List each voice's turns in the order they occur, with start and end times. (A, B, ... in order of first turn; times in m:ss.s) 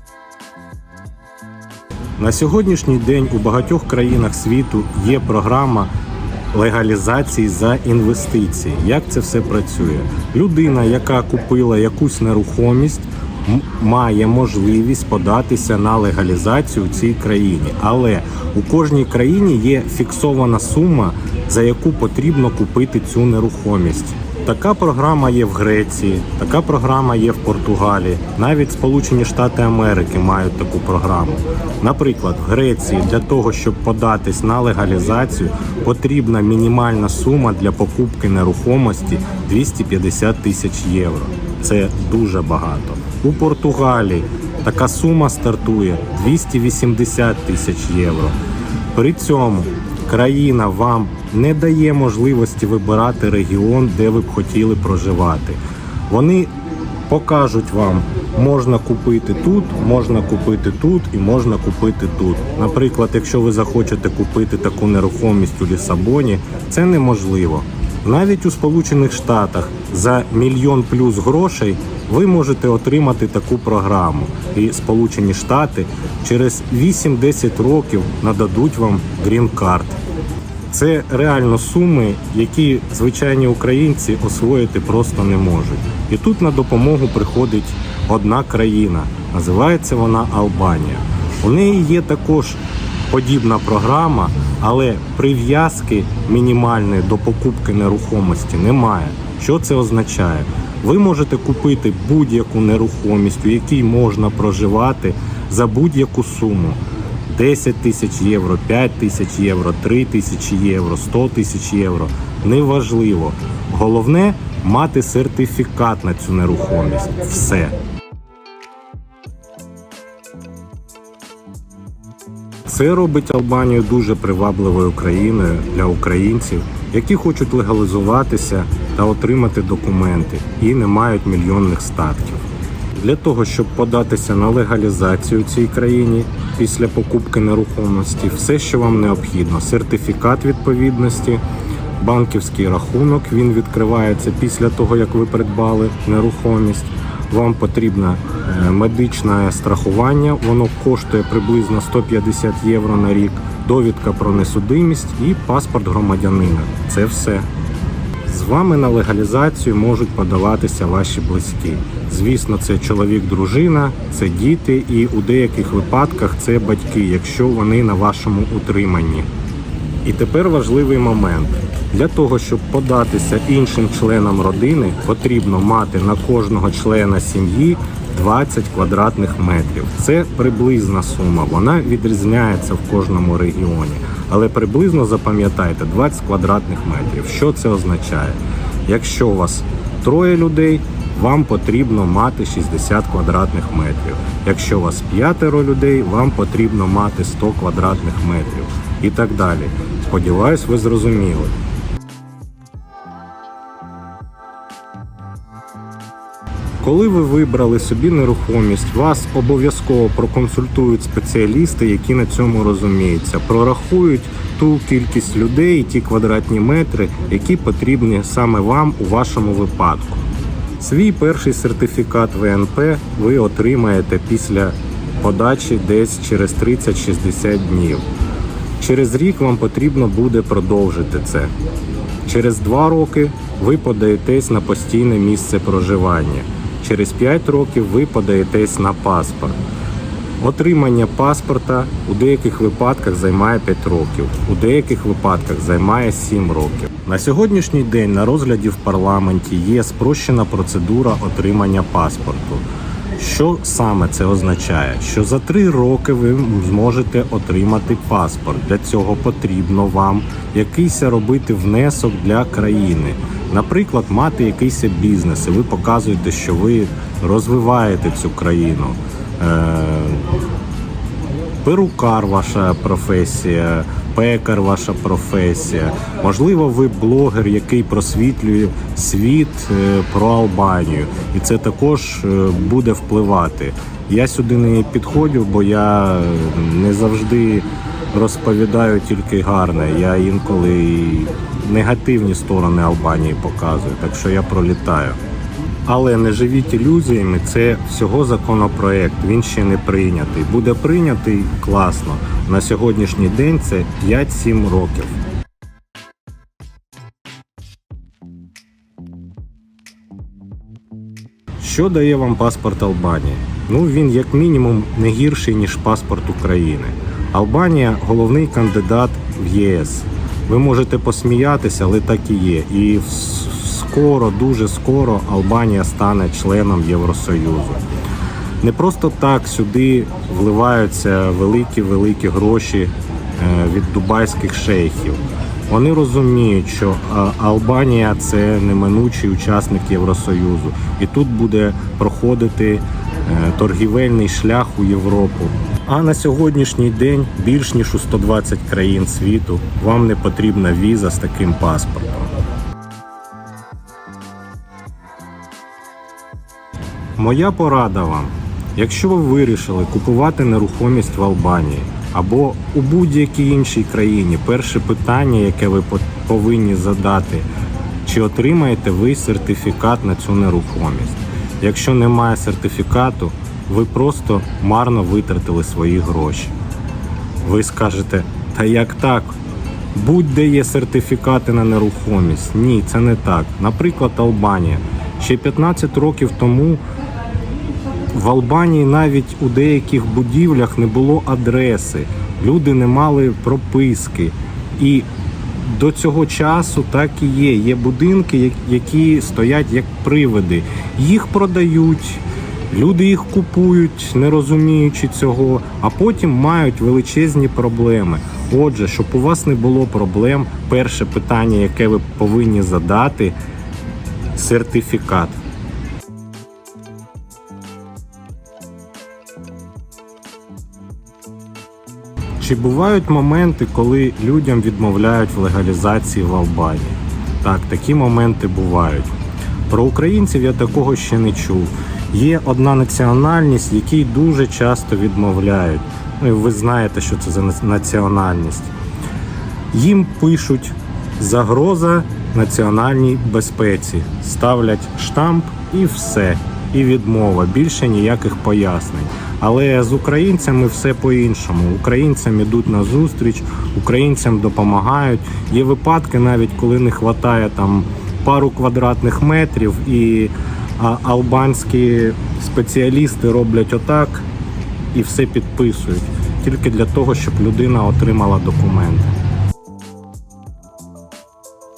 0:02.2-0:05.9 A
0:06.5-0:48.3 A
0:48.9-0:56.5 A
0:57.1-1:20.0 A
1:20.7-1:57.7 A
2:02.6-2:21.4 A
2:22.0-2:37.5 A
2:38.2-2:49.3 A
2:50.0-3:21.6 A
3:26.8-3:40.2 A
3:40.8-3:48.0 A
3:48.8-3:51.5 A
3:52.2-3:59.6 A
4:00.4-4:12.6 A
4:13.2-4:30.3 A
4:31.6-4:55.2 A
4:55.8-5:05.2 A
5:11.6-5:27.8 A
5:28.6-5:52.3 A
5:57.2-6:07.5 A
6:08.0-6:16.5 A
6:17.4-6:19.4 A
6:19.9-6:26.8 A
6:28.1-6:35.1 A
6:35.6-6:53.3 A
6:54.3-6:55.4 A
7:02.4-7:09.1 A
7:09.7-7:18.7 A
7:19.7-7:44.2 A
7:44.9-7:49.1 A